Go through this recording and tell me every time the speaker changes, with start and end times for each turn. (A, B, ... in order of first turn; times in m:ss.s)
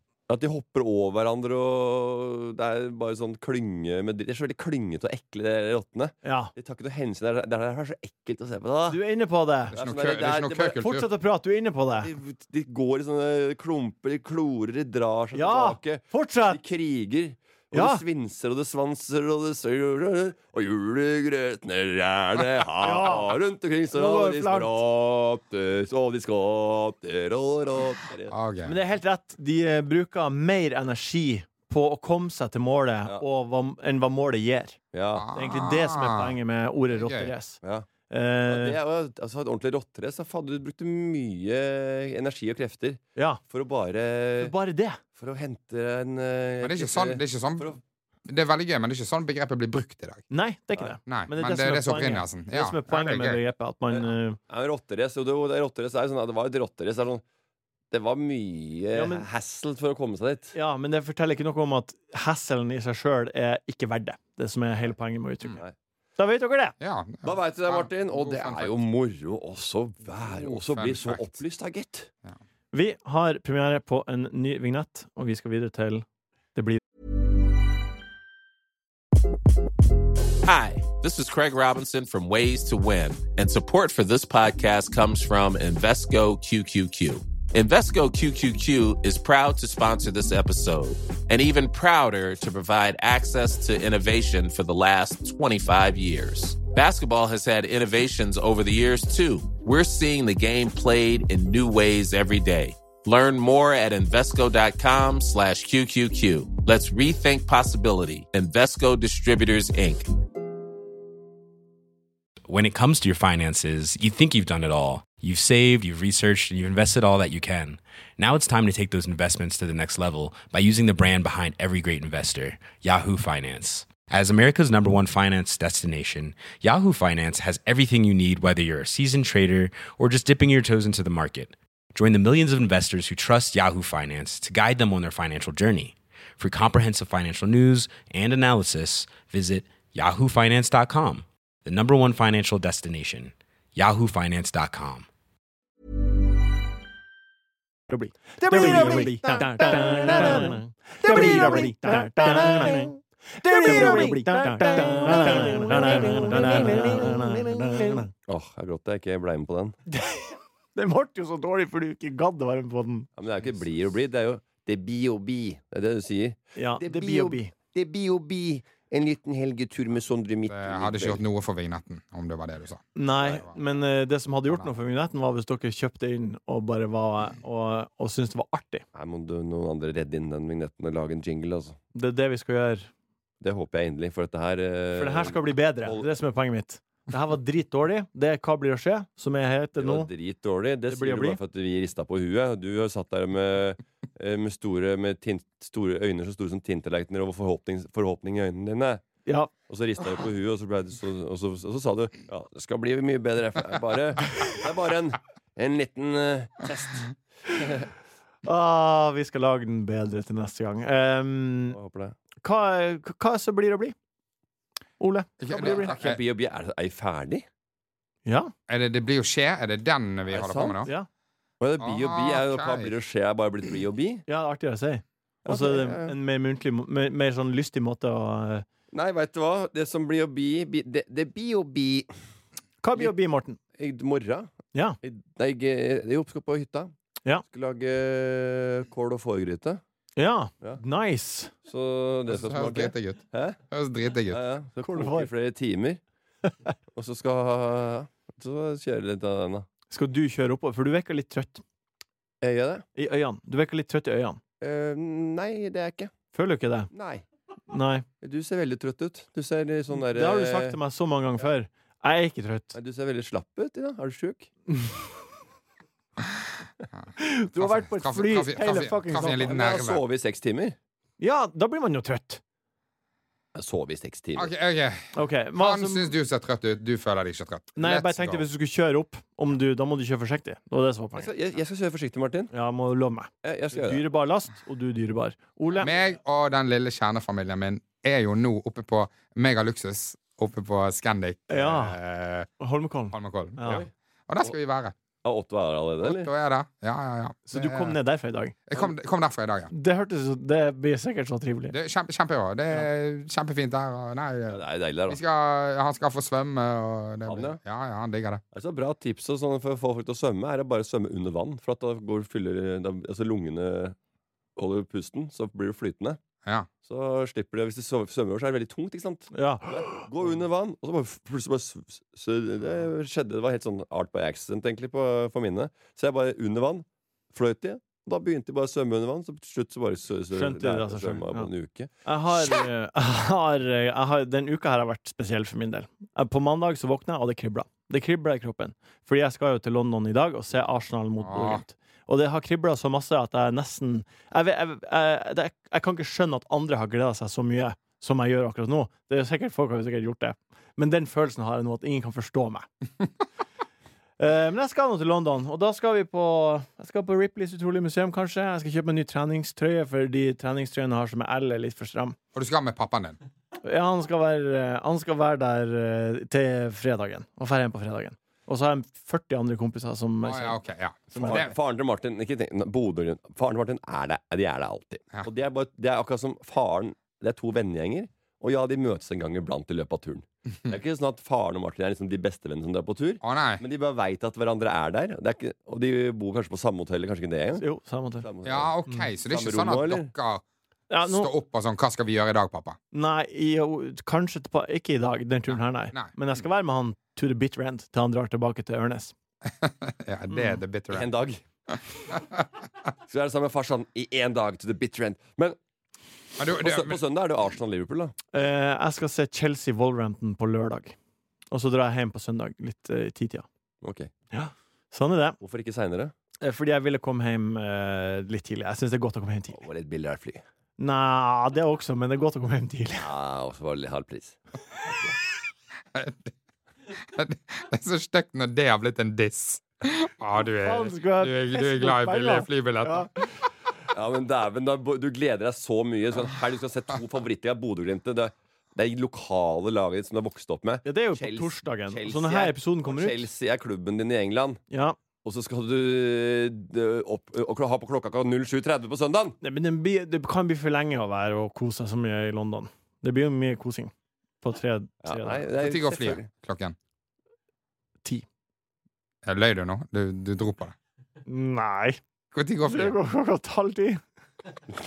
0:00.3-0:09.0 A
0:06.2-0:06.5 B
0:08.9-0:09.7 B
0:09.7-0:11.1 C
0:09.7-0:10.8 A
0:10.8-0:12.1 B
0:12.0-0:28.3 A
0:15.3-0:16.6 B
0:17.7-0:18.0 B
0:22.8-0:23.4 B
0:23.9-0:24.7 B
0:28.3-0:28.8 C
0:28.6-0:34.8 B
0:34.9-0:35.2 A
0:35.1-0:36.4 C
0:35.3-0:38.8 B
0:36.9-0:37.3 C
0:38.4-0:44.5 A
0:43.2-0:43.4 B
0:44.4-0:45.0 B
0:45.2-0:47.8 A
0:46.6-0:47.7 C
0:48.3-0:50.2 C
0:50.3-0:54.4 B
0:51.1-0:53.4 C
0:54.0-0:57.2 A
0:57.9-1:00.5 A
0:58.9-0:59.3 B
1:00.5-1:05.6 B
1:06.2-1:06.8 B
1:06.8-1:08.7 C
1:07.2-1:12.1 A
1:10.1-1:11.3 C
1:12.7-1:16.8 B
1:20.4-1:50.0 D
1:52.5-2:25.1 E
2:27.9-2:38.1 B
2:28.4-2:32.9 A
2:33.6-2:39.8 A
2:39.9-2:43.1 B
2:43.2-2:51.2 A
2:46.6-2:47.5 B
2:50.5-2:53.6 C
2:53.0-2:58.8 B
2:58.9-3:01.8 A
3:01.9-3:02.9 B
3:03.4-3:06.1 A
3:05.0-3:10.1 B
3:09.8-3:19.0 A
3:10.9-3:11.4 B
3:19.7-3:27.9 A
3:28.4-3:31.8 B
3:31.7-3:32.1 A
3:32.4-3:33.9 B
3:35.0-3:36.0 B
3:35.4-3:36.2 C
3:35.5-3:37.4 A
3:38.2-3:38.5 B
3:38.7-3:40.9 C
3:40.3-3:40.8 A
3:41.6-3:44.2 A
3:41.8-3:42.9 C
3:44.3-3:48.6 B
3:45.4-3:46.1 A
3:48.9-3:52.1 A
3:52.8-3:53.6 B
3:53.8-3:54.5 A
3:55.0-3:56.9 A
3:57.4-3:59.8 A
4:00.2-4:01.5 B
4:01.7-4:03.6 A
4:02.3-4:04.4 C
4:04.3-4:06.0 A
4:04.8-4:05.3 B
4:06.9-4:09.6 A
4:09.9-4:11.6 B
4:12.4-4:12.8 A
4:13.0-4:14.4 B
4:14.6-4:16.1 A
4:16.3-4:16.9 B
4:16.9-4:17.2 A
4:17.7-4:18.0 B
4:18.2-4:20.8 A
4:19.9-4:22.7 B
4:22.7-4:24.5 A
4:27.2-4:29.5 B
4:27.6-4:30.0 C
4:29.1-4:30.8 A
4:31.2-4:32.4 B
4:33.5-4:34.5 A
4:34.4-4:38.4 C
4:35.1-4:36.1 B
4:37.8-4:41.3 B
4:41.2-4:42.5 A
4:42.5-4:45.9 B
4:43.4-4:44.0 A
4:45.8-4:52.5 C
4:51.5-4:52.0 B
4:52.6-4:53.8 B
4:53.1-4:54.9 C
4:55.2-4:56.3 A
4:56.0-4:58.0 C
4:57.5-4:58.6 B
4:58.7-4:59.7 C
4:59.7-5:01.8 B
5:01.7-5:08.4 C
5:04.5-5:05.2 A
5:07.2-5:07.6 A
5:08.5-5:13.9 A
5:14.6-5:16.2 A
5:16.8-5:31.9 A
5:19.3-5:20.1 B
5:30.3-5:31.5 B
5:32.0-5:52.6 B
5:41.2-5:41.6 C
5:54.2-6:02.2 B
6:02.3-6:03.2 C
6:03.6-6:10.6 B
6:10.2-6:11.6 C
6:11.1-6:11.4 B
6:11.2-6:27.6 A
6:23.2-6:23.6 C
6:27.6-6:28.2 B
6:28.2-6:28.7 A
6:28.4-6:30.4 C
6:29.3-6:30.1 A
6:30.9-6:31.3 B
6:31.0-6:32.8 C
6:32.9-6:39.1 B
6:35.5-6:36.4 C
6:39.6-6:41.1 C
6:40.3-6:40.6 B
6:40.9-6:41.4 A
6:42.1-6:42.4 C
6:43.1-6:45.6 A
6:46.4-6:47.0 C
6:46.4-6:48.1 A
6:48.3-6:50.9 B
6:51.5-6:53.4 B
6:53.8-6:54.1 A
6:54.3-6:55.4 B
6:55.4-6:56.1 A
6:56.4-6:59.6 B
6:59.5-7:00.4 A
7:00.8-7:03.1 B
7:03.0-7:04.4 A
7:05.9-7:06.3 C
7:07.1-7:13.1 C
7:10.6-7:13.3 B
7:13.9-7:24.6 A
7:20.8-7:23.3 B
7:24.7-7:25.0 B
7:25.2-7:29.4 A
7:29.4-7:35.4 B
7:35.0-7:36.2 A
7:35.6-7:36.8 C
7:39.2-7:40.8 C
7:41.2-7:42.0 B
7:42.3-7:43.0 C
7:42.7-7:44.0 B